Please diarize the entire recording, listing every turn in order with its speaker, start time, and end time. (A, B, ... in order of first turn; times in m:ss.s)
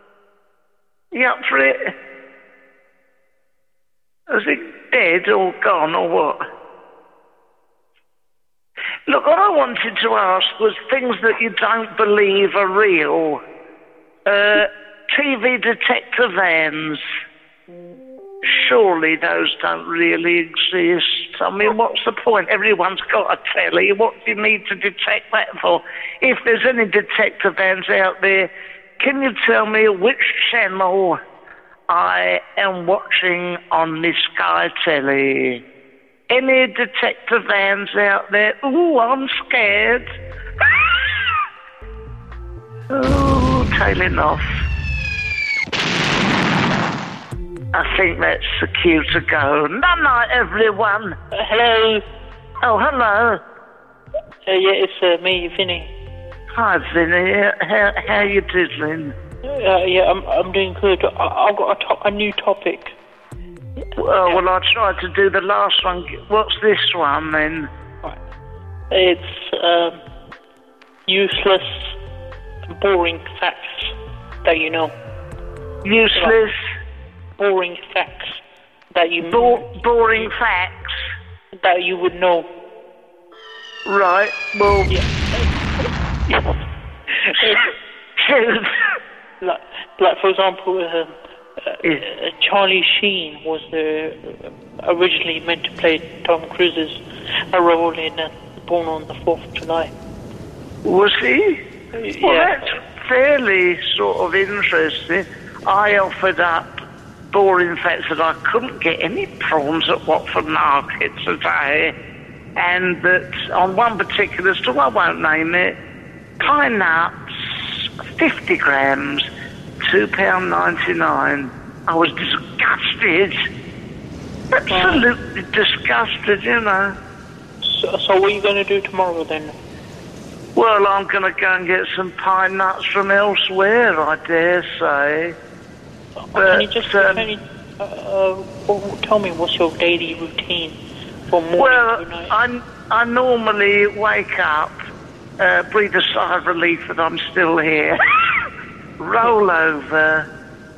0:01.1-0:01.9 A
0:04.3-0:06.4 A
0:09.1-0:13.4 A
0:14.3-0:17.0 A
0:18.4-0:31.2 A
0:31.9-0:35.6 A
0:36.3-0:40.1 A
0:42.9-0:44.4 A
0:47.7-0:51.2 A
0:51.4-0:52.0 B
0:52.6-0:53.4 A
0:54.5-0:55.9 B
0:56.5-0:59.2 A
0:59.4-1:03.0 B
1:04.0-1:07.7 A
1:08.9-1:10.0 B
1:11.1-1:12.0 B
1:12.7-1:14.9 B
1:15.8-1:16.6 A
1:16.1-1:16.4 B
1:17.4-1:18.4 B
1:18.9-1:19.7 B
1:19.2-1:20.9 A
1:21.6-1:22.5 B
1:23.9-1:25.0 A
1:24.9-1:25.4 B
1:26.3-1:26.6 B
1:27.2-1:27.7 B
1:28.2-1:28.8 A
1:29.4-1:37.0 B
1:37.5-1:39.9 B
1:40.8-1:41.6 A
1:42.0-1:42.7 B
1:42.2-1:51.9 A
1:52.6-1:55.8 A
1:56.4-1:59.3 A
1:59.8-2:03.5 A
2:04.5-2:07.0 A
2:04.7-2:05.1 B
2:07.6-2:09.6 B
2:10.6-2:15.4 A
2:16.3-2:20.8 B
2:16.4-2:17.3 A
2:21.3-2:22.4 B
2:21.6-2:24.8 A
2:25.4-2:28.0 A
2:29.0-2:30.3 A